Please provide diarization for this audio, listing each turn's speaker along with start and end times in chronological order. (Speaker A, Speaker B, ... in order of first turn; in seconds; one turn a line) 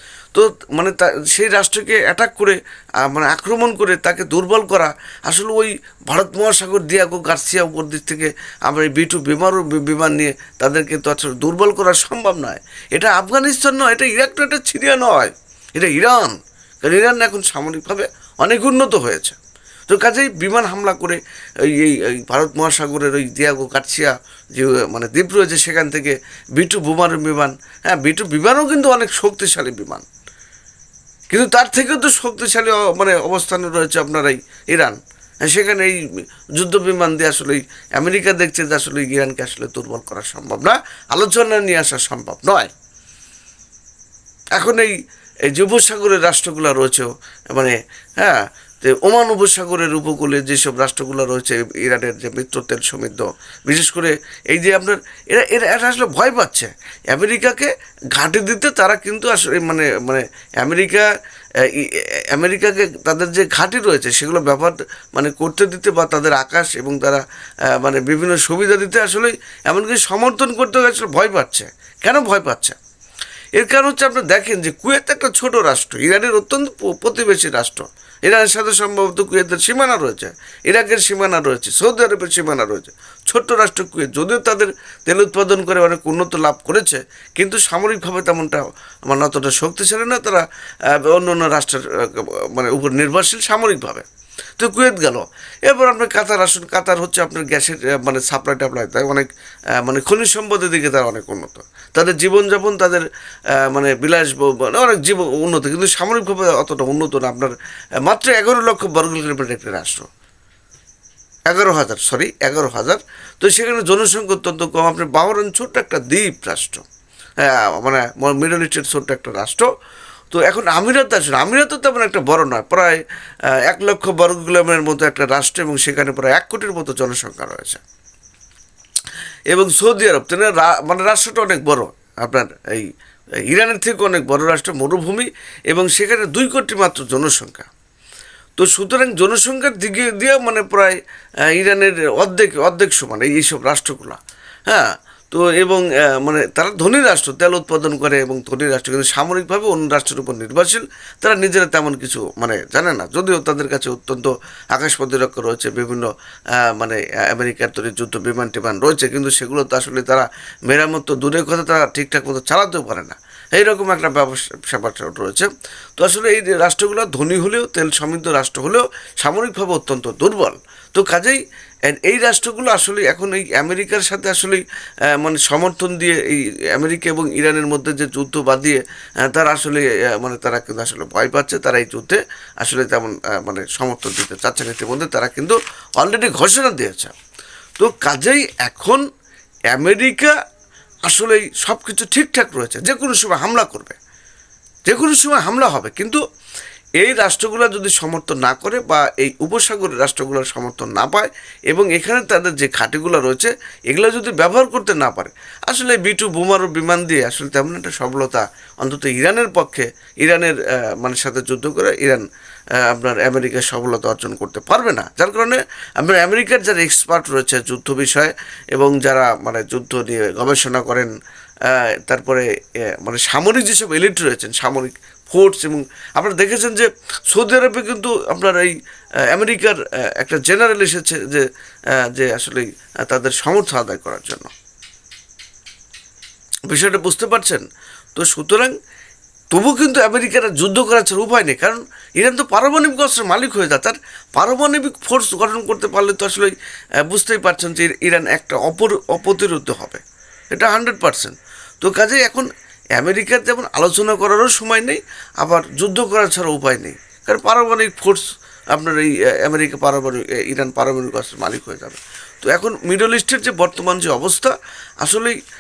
Speaker A: 0.3-19.4
Speaker A: 19.9-30.1
Speaker A: 31.3-36.0
Speaker A: 36.5-42.7
Speaker A: 44.5-45.0
Speaker A: 45.5-61.1
Speaker A: 61.6-67.2
Speaker A: 67.7-72.8
Speaker A: 73.6-94.0
Speaker A: 94.6-110.1
Speaker A: 111.5-116.8
Speaker A: 117.4-119.7
Speaker A: 120.3-123.0
Speaker A: 123.5-127.8
Speaker A: 129.5-132.9
Speaker A: 133.5-137.7
Speaker A: 138.6-141.0
Speaker A: 141.5-174.6
Speaker A: 175.1-187.1
Speaker A: 187.8-189.0
Speaker A: 189.7-190.3
Speaker A: 191.1-194.0
Speaker A: 194.9-196.2
Speaker A: 197.0-212.2
Speaker A: 212.8-221.1
Speaker A: 221.6-228.7
Speaker A: 229.3-234.5
Speaker A: 236.7-238.7
Speaker A: 239.5-246.6
Speaker A: 247.1-250.0
Speaker A: 250.5-265.4